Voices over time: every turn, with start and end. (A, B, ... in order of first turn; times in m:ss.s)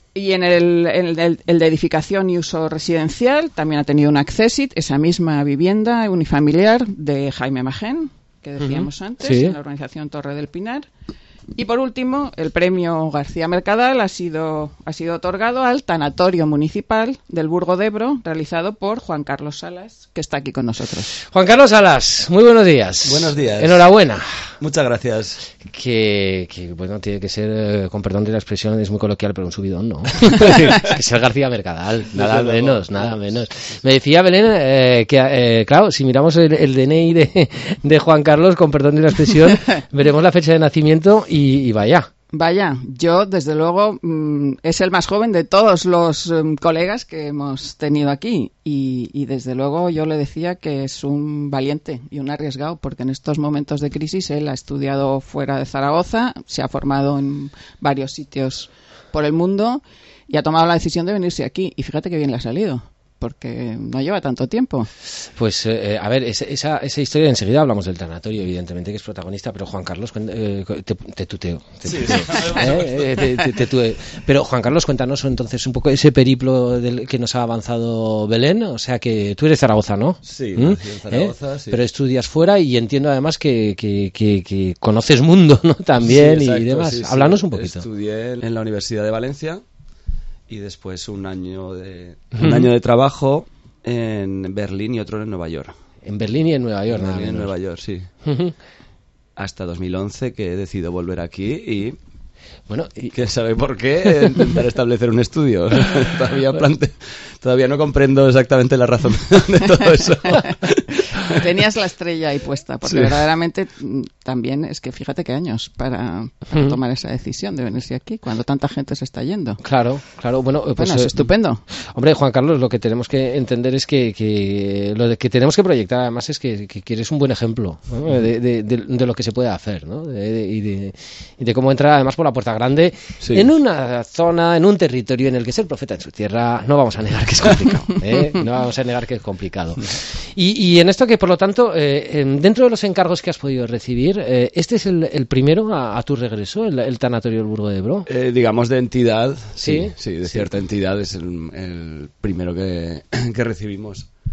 0:00.1-0:10.9 A
0:08.6-0:09.6 B
0:11.5-0:21.2 A
0:21.2-0:24.5 B
0:23.0-0:23.8 C
0:24.6-0:25.4 C
0:25.6-0:42.1 B
0:32.1-0:33.1 C
0:42.3-1:04.9 A
1:05.4-1:27.8 B
1:11.8-1:13.1 C
1:20.2-1:21.8 C
1:26.0-1:29.6 C
1:30.5-1:35.7 C
1:32.4-1:32.6 B
1:36.0-1:37.5 B
1:36.9-1:38.1 C
1:38.2-1:38.5 B
1:39.4-1:42.0 C
1:42.7-1:43.1 B
1:43.1-1:51.0 C
1:50.3-1:50.6 A
1:51.1-1:59.6 A
1:52.8-1:53.2 C
1:59.6-2:28.1 B
2:00.8-2:01.6 A
2:13.2-2:13.5 C
2:28.1-2:34.1 C
2:29.6-2:30.4 B